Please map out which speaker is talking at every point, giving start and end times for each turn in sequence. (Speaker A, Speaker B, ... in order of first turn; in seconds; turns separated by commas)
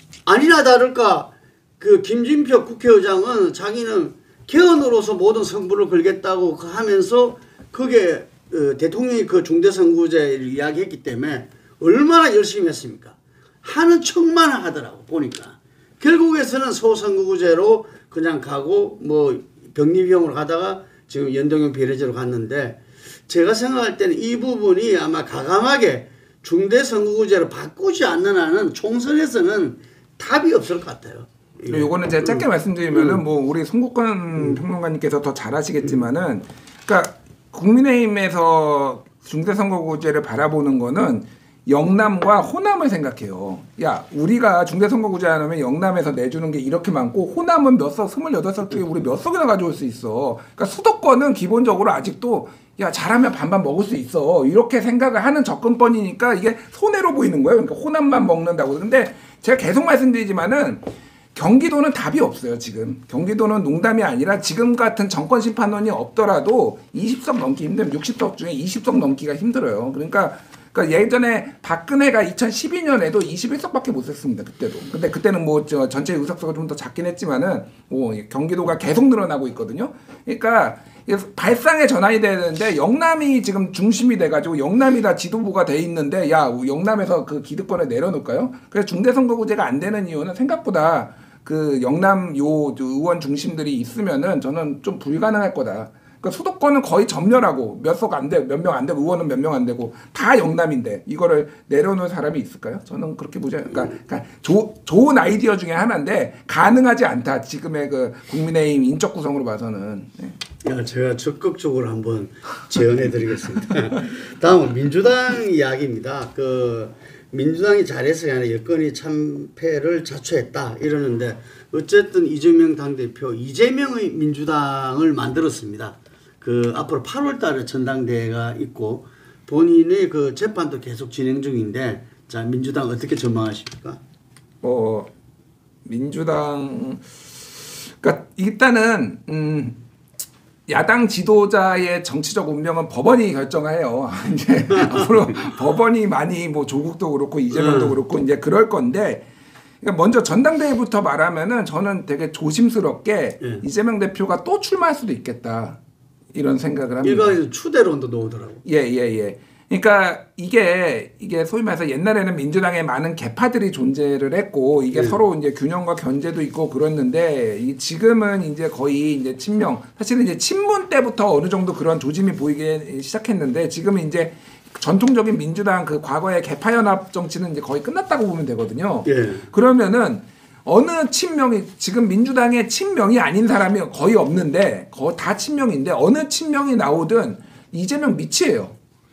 Speaker A: 0.3-33.2, Speaker B: 31.7-110.4, Speaker A: 110.6-134.0, Speaker B: 134.6-135.1, Speaker B: 135.8-137.0, Speaker B: 137.8-139.8, Speaker B: 140.7-149.2, Speaker A: 144.7-145.1, Speaker A: 147.5-148.0, Speaker B: 149.8-155.8, Speaker B: 156.3-157.4, Speaker A: 157.0-158.6, Speaker B: 158.7-188.8, Speaker A: 164.9-165.2, Speaker A: 179.1-179.5